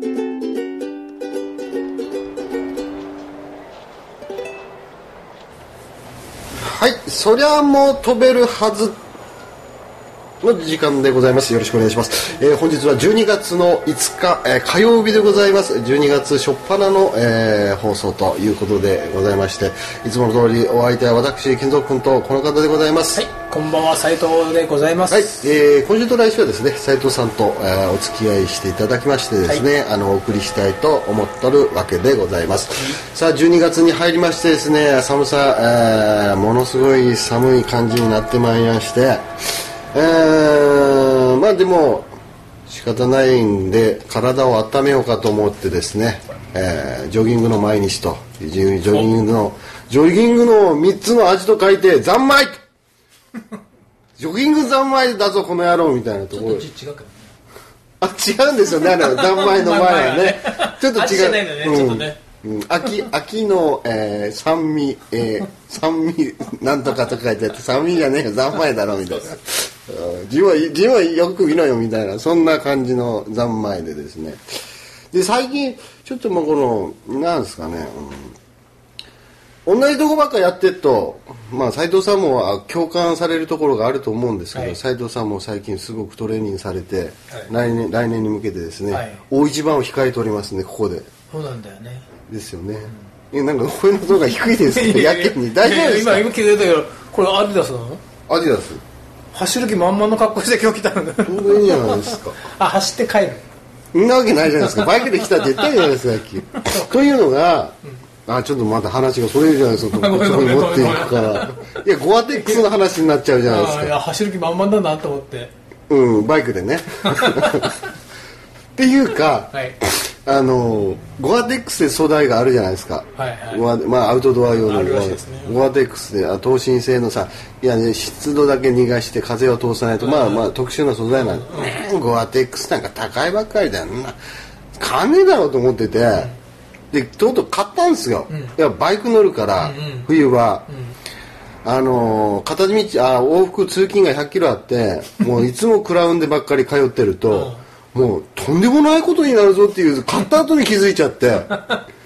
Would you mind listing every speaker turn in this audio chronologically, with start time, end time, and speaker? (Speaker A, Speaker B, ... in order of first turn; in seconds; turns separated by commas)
Speaker A: 6.6-9.0, Speaker A: 10.4-23.3, Speaker B: 23.1-25.5, Speaker A: 25.1-39.3, Speaker A: 39.9-42.1, Speaker A: 42.7-52.6, Speaker A: 54.2-56.7, Speaker B: 56.3-57.3, Speaker A: 58.0-74.4, Speaker B: 58.8-62.2, Speaker A: 75.1-78.4, Speaker A: 79.7-91.1, Speaker B: 84.5-84.8, Speaker B: 88.9-89.2, Speaker B: 91.3-92.1, Speaker A: 92.2-96.3, Speaker B: 94.7-98.0, Speaker A: 98.3-98.8, Speaker B: 99.3-103.4, Speaker A: 101.2-102.5, Speaker A: 103.9-113.9, Speaker B: 104.7-105.0, Speaker B: 106.6-106.8, Speaker B: 109.9-111.8, Speaker B: 113.4-115.5, Speaker A: 115.9-117.7, Speaker B: 117.0-117.8, Speaker A: 118.8-134.2, Speaker B: 123.2-123.7, Speaker B: 124.6-125.6, Speaker B: 130.0-130.5, Speaker B: 131.1-131.8, Speaker A: 134.8-136.3, Speaker A: 136.9-140.7, Speaker B: 138.3-138.6, Speaker B: 139.6-140.1, Speaker B: 140.7-141.0, Speaker A: 141.6-151.8, Speaker B: 147.3-147.6